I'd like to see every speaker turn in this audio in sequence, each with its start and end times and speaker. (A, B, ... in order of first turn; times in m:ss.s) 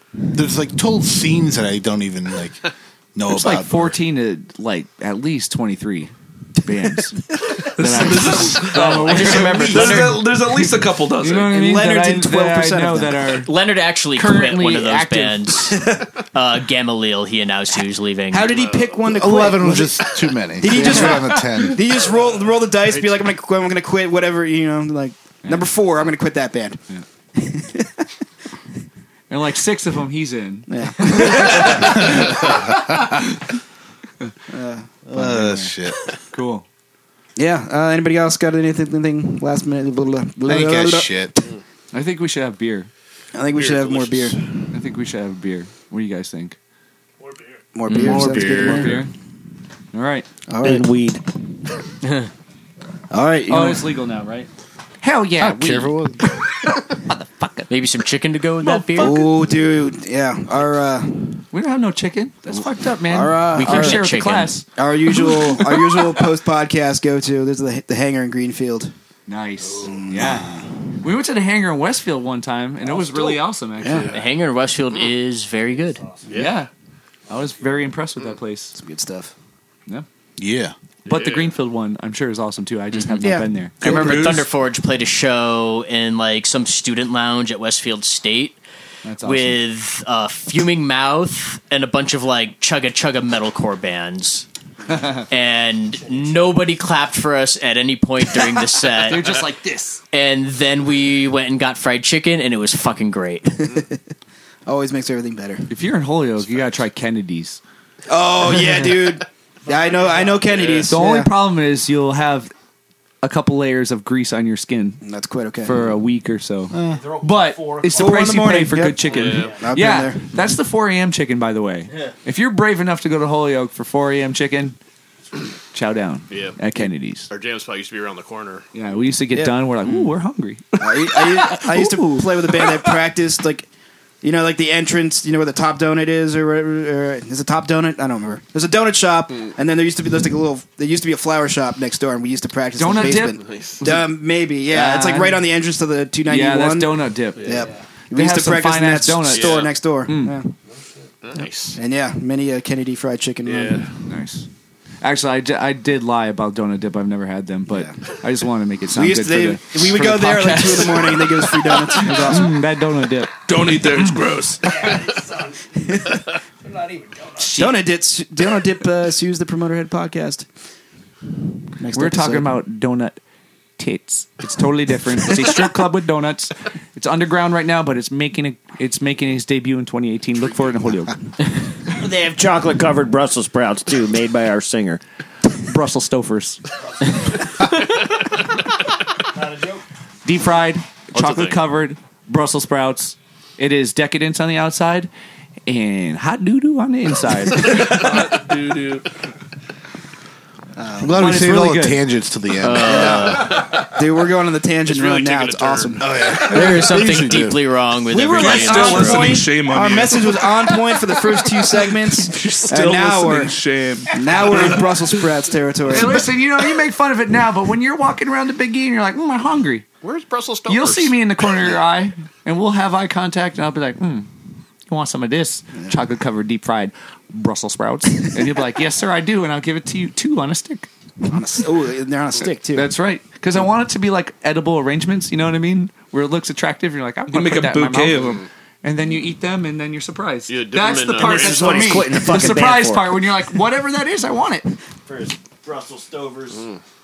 0:00.3-0:04.0 A
0:03.3-0:10.1 B
0:07.7-0:09.1 C
0:08.0-0:08.3 D
0:08.6-0:09.9 E
0:09.1-0:10.1 D
0:09.1-0:10.1 F
0:09.7-0:11.5 C
0:11.2-0:13.5 B
0:11.4-0:13.4 D
0:13.4-0:18.6 E
0:14.1-0:15.7 B
0:18.3-0:26.8 D
0:18.4-0:19.1 G
0:19.0-0:22.0 A
0:22.8-0:23.3 G
0:27.4-0:28.1 D
0:29.3-0:32.4 B
0:30.7-0:32.6 D
0:34.5-0:35.0 D
0:35.1-0:36.1 A
0:35.1-0:35.7 B
0:36.3-0:36.6 B
0:37.4-0:41.3 D
0:40.4-0:41.4 A
0:41.9-0:42.9 B
0:43.3-0:44.4 D
0:43.5-0:44.4 G
0:44.7-0:46.6 B
0:47.7-0:49.1 D
0:47.9-0:49.1 A
0:47.9-0:49.1 B
0:49.9-0:50.3 B
0:50.5-0:50.9 D
0:50.6-0:51.2 F
0:53.1-0:53.9 D
0:53.5-0:54.5 B
0:55.0-0:56.0 B
0:55.4-0:56.4 A
0:56.7-0:57.7 B
0:57.7-0:59.2 E
0:58.6-0:59.2 B
0:59.0-1:01.4 D
1:01.5-1:05.8 B
1:03.1-1:04.0 D
1:03.6-1:04.6 E
1:04.8-1:08.9 D
1:09.3-1:14.1 B
1:09.8-1:10.4 D
1:13.8-1:14.1 D
1:13.9-1:14.2 G
1:14.0-1:16.0 E
1:16.3-1:16.6 G
1:16.3-1:16.7 B
1:17.3-1:18.8 B
1:18.8-1:19.3 D
1:20.4-1:20.7 A
1:21.1-1:21.6 G
1:21.1-1:24.1 B
1:23.2-1:24.3 D
1:23.8-1:28.6 E
1:23.9-1:24.3 C
1:29.0-1:29.6 B
1:29.2-1:34.4 E
1:34.9-1:35.2 B
1:35.3-1:39.4 E
1:38.9-1:40.0 B
1:40.1-1:43.6 E
1:43.6-1:44.0 D
1:44.6-1:45.7 D
1:45.7-1:47.6 B
1:48.1-1:51.3 D
1:50.4-1:50.9 G
1:50.9-1:52.5 B
1:53.2-1:55.0 B
1:55.0-1:55.8 D
1:55.6-2:04.8 B
1:56.7-1:57.1 A
1:57.8-2:00.2 D
1:59.0-1:59.7 G
2:05.7-2:07.3 B
2:06.3-2:06.6 G
2:07.3-2:08.6 G
2:08.7-2:12.4 B
2:09.3-2:09.7 D
2:10.8-2:13.7 D
2:14.2-2:30.5 D
2:22.8-2:24.0 B
2:23.4-2:23.8 G
2:24.7-2:25.5 B
2:26.3-2:27.6 B
2:27.4-2:27.6 G
2:28.1-2:30.4 B
2:29.3-2:29.7 G
2:31.2-2:31.8 G
2:31.7-2:33.8 D
2:33.4-2:33.9 G
2:34.1-2:34.5 B
2:35.0-2:44.2 B
2:37.7-2:38.0 D
2:38.9-2:42.6 D
2:43.5-2:45.0 C
2:45.8-2:46.2 D
2:47.4-2:47.8 B
2:47.4-2:50.4 D
2:51.8-2:52.6 D
2:51.9-2:53.2 B
2:53.8-3:01.3 B
3:01.9-3:05.0 F
3:05.6-3:06.6 B
3:09.5-3:09.8 F
3:10.2-3:15.1 B
3:11.1-3:11.6 G
3:15.7-3:18.1 B
3:17.8-3:19.1 C
3:20.8-3:21.3 D
3:21.0-3:23.4 A
3:21.1-3:22.0 B
3:22.6-3:23.6 E
3:22.8-3:26.1 D
3:24.9-3:26.1 G
3:26.0-3:27.6 A
3:26.4-3:29.4 E
3:28.1-3:33.6 D
3:28.4-3:30.5 C
3:32.2-3:32.9 B
3:32.4-3:34.8 C
3:34.1-3:36.4 D
3:35.9-3:39.8 B
3:40.0-3:41.4 G
3:40.7-3:44.3 B
3:44.9-3:50.9 B
3:51.3-3:52.9 D
3:52.7-4:04.7 B
3:57.3-3:58.4 C
4:00.5-4:02.2 G
4:01.2-4:03.2 F
4:05.0-4:06.7 F
4:06.5-4:06.8 G